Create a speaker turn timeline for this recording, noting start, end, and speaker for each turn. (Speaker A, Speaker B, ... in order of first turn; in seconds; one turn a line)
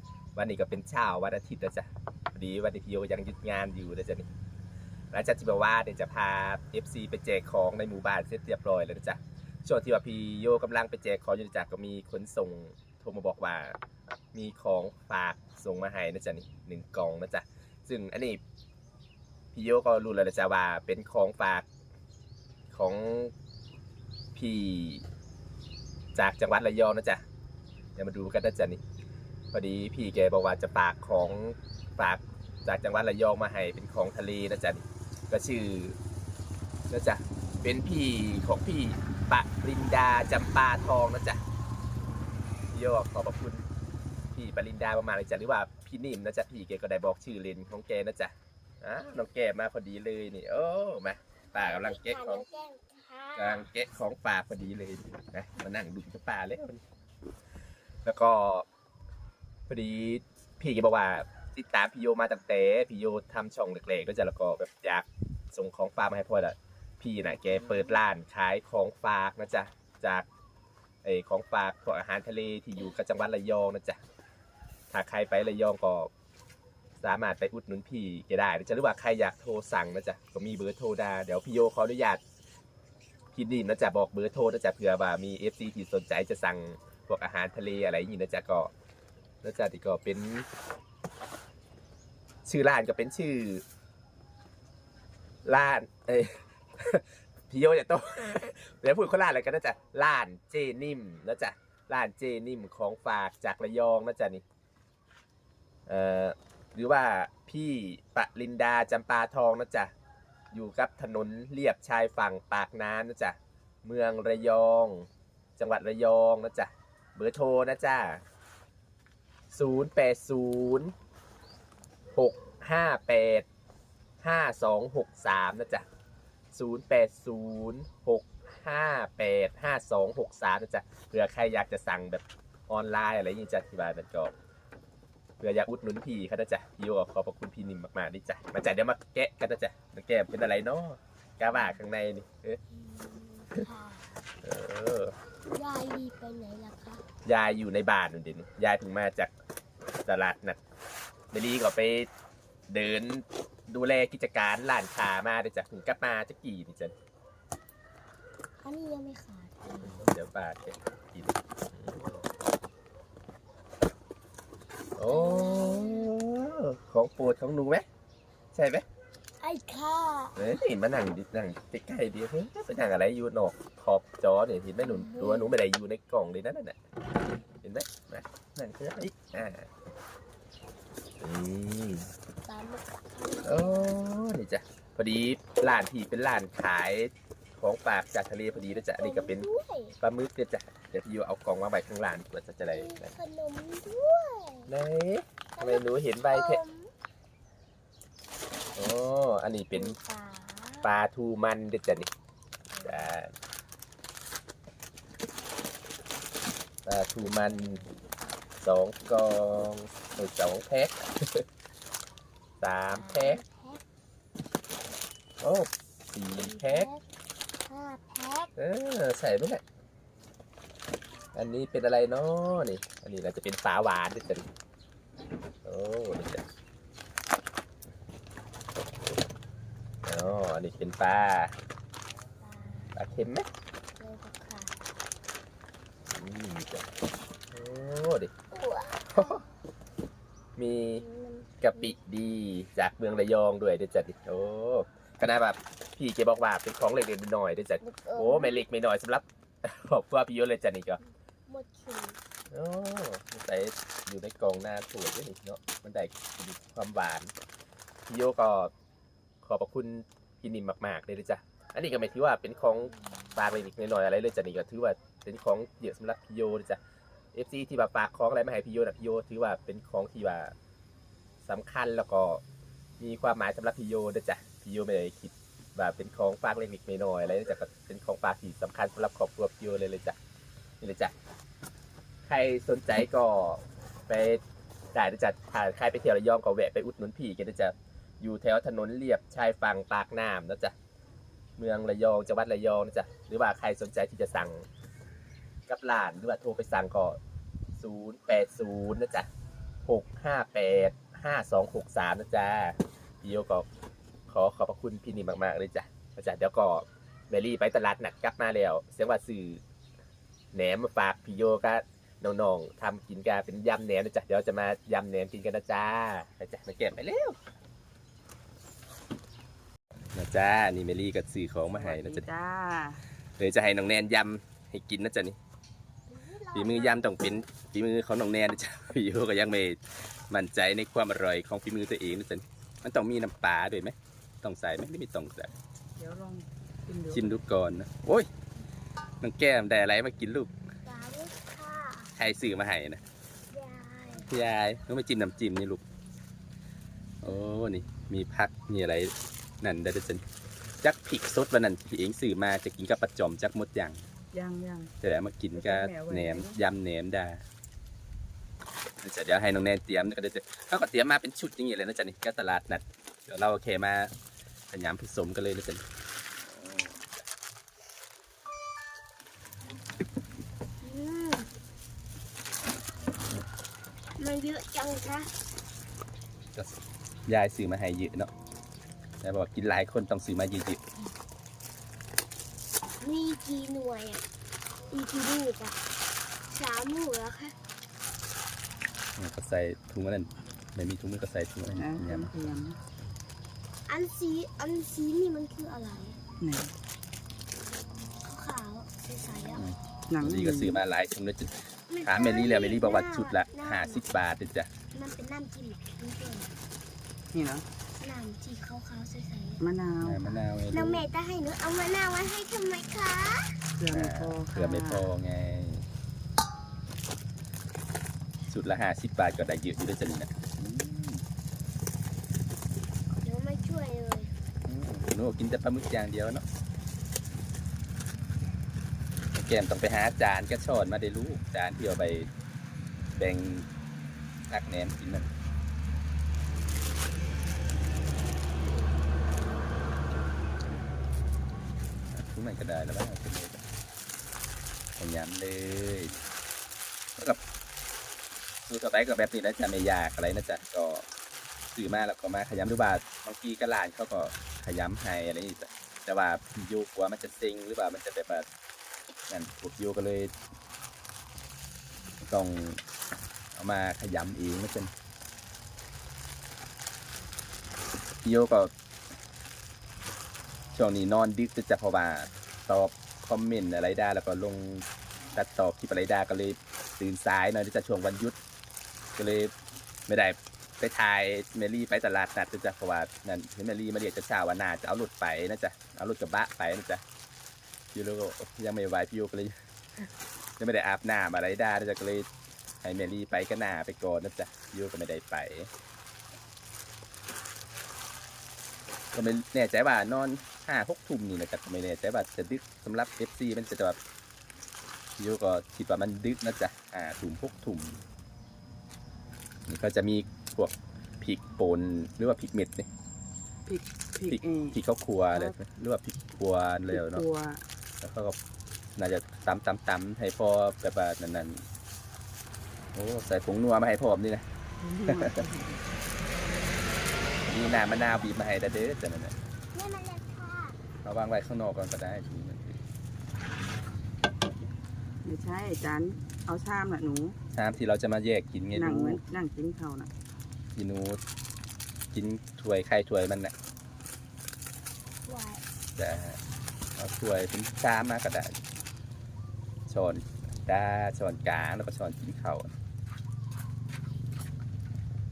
Speaker A: 0.3-4.3
Speaker A: 5.1-13.8
Speaker A: 14.3-18.4
Speaker A: 19.5-21.6
Speaker A: 22.7-23.3
Speaker A: 24.3-25.0
Speaker A: 26.1-27.2
Speaker A: 27.9-28.8
Speaker A: 29.5-36.0
Speaker A: 36.9-41.4
Speaker A: 42.7-43.6
Speaker A: 44.3-52.4
Speaker B: 51.5-53.6
Speaker A: 53.4-56.8
Speaker A: 58.0-58.6
Speaker A: 59.7-70.3
Speaker A: 71.0-74.0
Speaker A: 74.9-76.1
Speaker A: 77.0-82.2
Speaker A: 83.3-88.7
Speaker A: 89.4-90.5
Speaker A: 92.4-93.6
Speaker A: 95.4-104.4
Speaker A: 105.9-109.9
Speaker A: 110.5-118.2
Speaker A: 119.5-120.9
Speaker A: 122.1-123.5
Speaker A: 124.2-125.8
Speaker A: 126.5-134.3
Speaker A: 135.4-142.6
Speaker B: 141.5-141.8
Speaker B: 142.7-144.2
Speaker A: 144.4-145.1
Speaker B: 145.5-147.0
Speaker A: 147.2-149.3
Speaker A: 150.1-150.6
Speaker A: 151.3-152.1
Speaker A: 152.7-156.9
Speaker B: 158.6-160.1
Speaker A: 159.8-162.2
Speaker A: 165.0-167.8
Speaker B: 165.1-166.2
Speaker A: 168.5-168.8
Speaker B: 169.4-170.4
Speaker A: 170.4-176.8
Speaker B: 174.8-175.6
Speaker A: 177.6-179.7
Speaker A: 181.2-182.1
Speaker B: 182.4-184.1
Speaker A: 183.4-189.4
Speaker B: 188.9-190.0
Speaker A: 190.0-193.1
Speaker B: 192.7-194.7
Speaker A: 194.7-196.6
Speaker B: 195.5-196.9
Speaker A: 198.8-199.9
Speaker B: 199.7-200.9
Speaker A: 200.8-202.1
Speaker B: 202.7-203.1
Speaker A: 202.8-203.3
Speaker A: 206.8-207.8
Speaker B: 207.3-207.9
Speaker A: 208.6-211.4
Speaker A: 212.6-213.4
Speaker B: 212.9-213.8
Speaker A: 215.4-216.9
Speaker B: 216.4-217.1
Speaker B: 217.7-218.5
Speaker A: 218.6-219.6
Speaker A: 221.3-224.4
Speaker A: 225.6-226.4
Speaker A: 230.0-231.5
Speaker B: 232.4-233.0
Speaker A: 232.9-233.5
Speaker B: 234.0-234.7
Speaker A: 236.1-236.8
Speaker A: 237.5-238.3
Speaker B: 238.5-239.4
Speaker A: 239.1-239.4
Speaker A: 240.6-241.0
Speaker B: 241.0-241.9
Speaker A: 241.6-251.0
Speaker B: 247.8-248.6
Speaker B: 251.5-252.2
Speaker A: 252.5-257.3
Speaker A: 258.1-258.7
Speaker A: 259.4-266.8
Speaker B: 263.0-263.3
Speaker A: 267.3-270.5
Speaker A: 271.4-272.4
Speaker A: 273.0-280.1
Speaker A: 280.8-281.1
Speaker A: 282.2-284.4
Speaker A: 284.9-290.7
Speaker A: 291.6-294.6
Speaker A: 295.7-297.2
Speaker A: 297.8-299.3
Speaker A: 299.9-303.6
Speaker A: 304.3-309.6
Speaker A: 310.5-317.4
Speaker A: 320.1-322.3
Speaker C: 321.7-323.0
Speaker A: 323.4-325.4
Speaker B: 326.1-327.2
Speaker A: 326.5-335.5
Speaker C: 336.0-337.4
Speaker A: 337.1-338.3
Speaker A: 339.2-340.5
Speaker B: 340.9-342.1
Speaker A: 342.2-343.0
Speaker B: 343.5-344.3
Speaker A: 344.2-345.8
Speaker A: 347.2-350.2
Speaker A: 350.8-354.0
Speaker C: 354.3-354.9
Speaker A: 355.0-357.4
Speaker C: 355.5-356.6
Speaker A: 359.0-364.1
Speaker A: 364.7-365.8
Speaker A: 366.4-367.1
Speaker B: 370.8-371.5
Speaker B: 374.2-375.3
Speaker A: 377.3-378.3
Speaker A: 379.2-380.8
Speaker B: 383.0-384.2
Speaker B: 384.9-385.8
Speaker B: 386.5-387.5
Speaker A: 389.2-392.5
Speaker C: 391.7-392.8
Speaker B: 393.9-396.2
Speaker C: 396.4-396.7
Speaker B: 398.2-399.6
Speaker A: 399.5-404.7
Speaker C: 400.1-400.8
Speaker B: 401.9-404.0
Speaker B: 404.9-406.5
Speaker C: 407.3-407.6
Speaker B: 408.0-409.6
Speaker C: 409.6-410.3
Speaker A: 410.0-411.0
Speaker B: 410.7-413.6
Speaker C: 413.8-415.1
Speaker A: 413.9-415.8
Speaker A: 418.5-421.2
Speaker B: 423.2-424.3
Speaker A: 424.7-426.4
Speaker A: 429.3-432.3
Speaker A: 433.1-433.7
Speaker A: 434.5-435.3
Speaker A: 442.1-443.6
Speaker A: 445.0-446.1
Speaker A: 448.7-451.0
Speaker A: 451.7-458.4
Speaker A: 459.3-460.3
Speaker A: 462.2-462.8
Speaker A: 463.5-464.9
Speaker A: 468.2-468.7
Speaker A: 470.7-478.4
Speaker A: 479.2-479.5
Speaker A: 480.1-487.0
Speaker A: 487.9-489.5
Speaker A: 490.6-492.3
Speaker A: 492.8-495.7
Speaker A: 499.1-504.0
Speaker A: 505.2-508.0
Speaker A: 509.7-512.9
Speaker C: 513.7-514.8
Speaker A: 514.2-517.2
Speaker C: 515.3-515.5
Speaker C: 516.9-517.6
Speaker A: 518.0-518.4
Speaker A: 519.0-521.6
Speaker A: 522.9-524.4
Speaker C: 524.8-525.8
Speaker A: 525.1-525.4
Speaker A: 527.5-529.3
Speaker B: 529.7-530.8
Speaker A: 531.0-532.8
Speaker C: 535.2-537.4
Speaker A: 537.5-539.2
Speaker C: 538.7-540.1
Speaker A: 540.8-541.2
Speaker A: 542.1-543.5
Speaker B: 545.3-545.6
Speaker A: 546.0-546.4
Speaker A: 547.0-548.5
Speaker A: 549.9-552.7